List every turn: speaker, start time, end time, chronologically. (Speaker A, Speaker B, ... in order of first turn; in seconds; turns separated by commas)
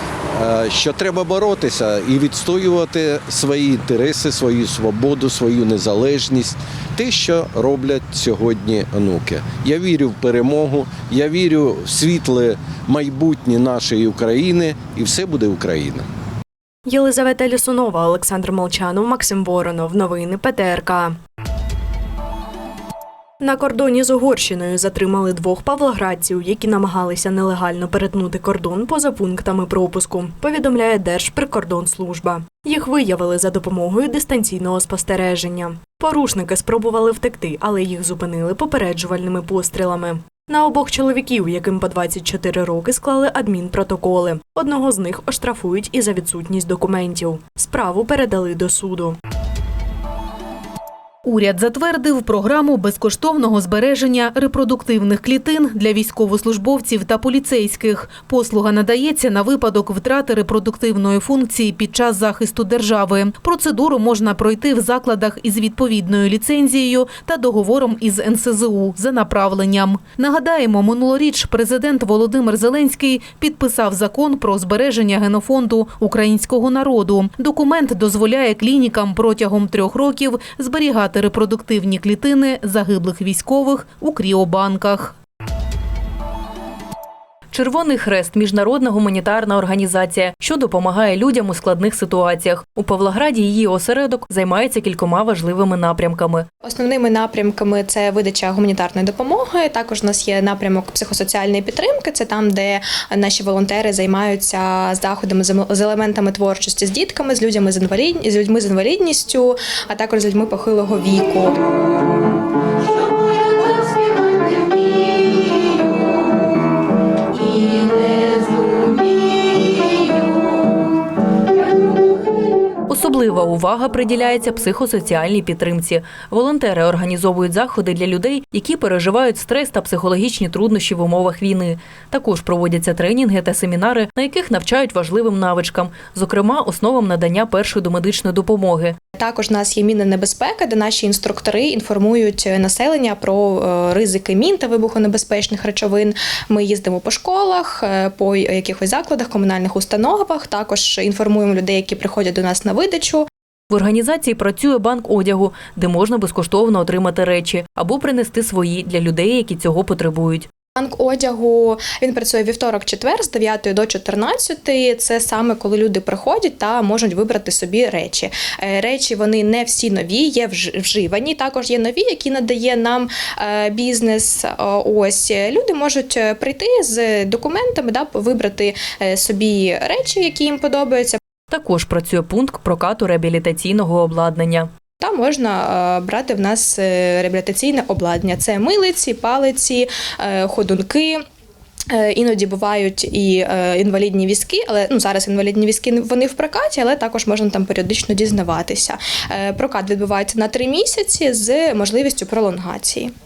Speaker A: 0.3-16.0, Speaker B: 16.9-21.2, Speaker B: 23.4-49.2, Speaker C: 51.2-85.2, Speaker D: 87.5-96.5, Speaker E: 96.6-111.6, Speaker D: 122.9-139.0, Speaker E: 139.2-153.3, Speaker D: 153.7-160.5, Speaker E: 160.8-181.2, Speaker D: 181.5-184.7, Speaker E: 185.0-191.2, Speaker E: 191.9-203.1